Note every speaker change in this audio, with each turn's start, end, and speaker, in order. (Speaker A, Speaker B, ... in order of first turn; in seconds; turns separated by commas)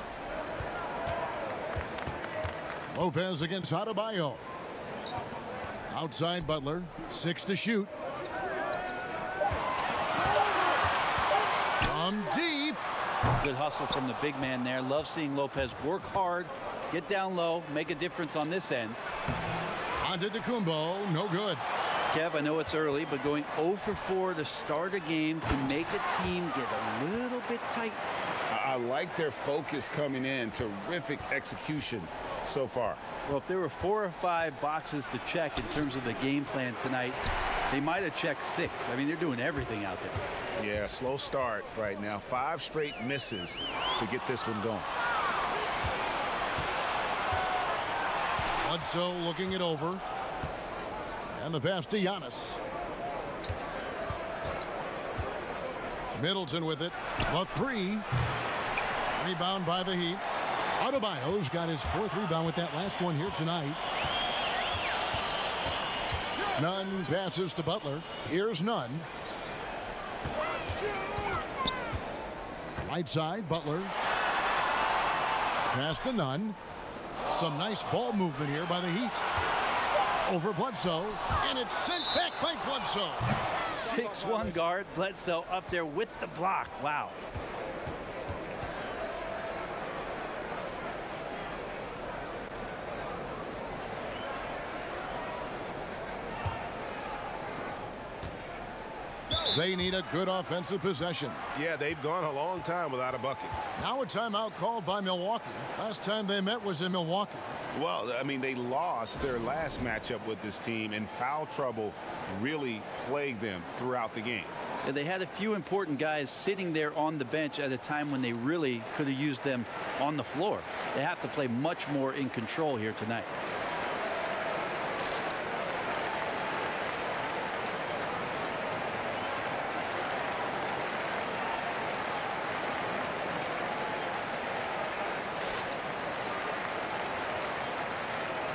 Speaker A: 2.9-4.4, Speaker A: 5.9-7.9, Speaker A: 11.8-12.8, Speaker B: 13.4-19.0, Speaker A: 20.0-21.6, Speaker B: 22.1-28.0, Speaker C: 28.5-33.0, Speaker B: 33.2-37.2, Speaker B: 37.7-40.2, Speaker C: 40.6-44.9, Speaker A: 48.6-50.0, Speaker A: 51.3-52.6, Speaker A: 56.1-58.0, Speaker A: 59.1-60.2, Speaker A: 60.8-63.8, Speaker A: 66.5-69.1, Speaker A: 72.8-73.9, Speaker A: 75.7-76.6, Speaker A: 77.3-79.2, Speaker A: 80.2-83.3, Speaker B: 83.7-87.2, Speaker A: 99.5-101.4, Speaker C: 101.5-103.5, Speaker A: 103.8-107.5, Speaker C: 107.7-114.5, Speaker B: 114.8-123.3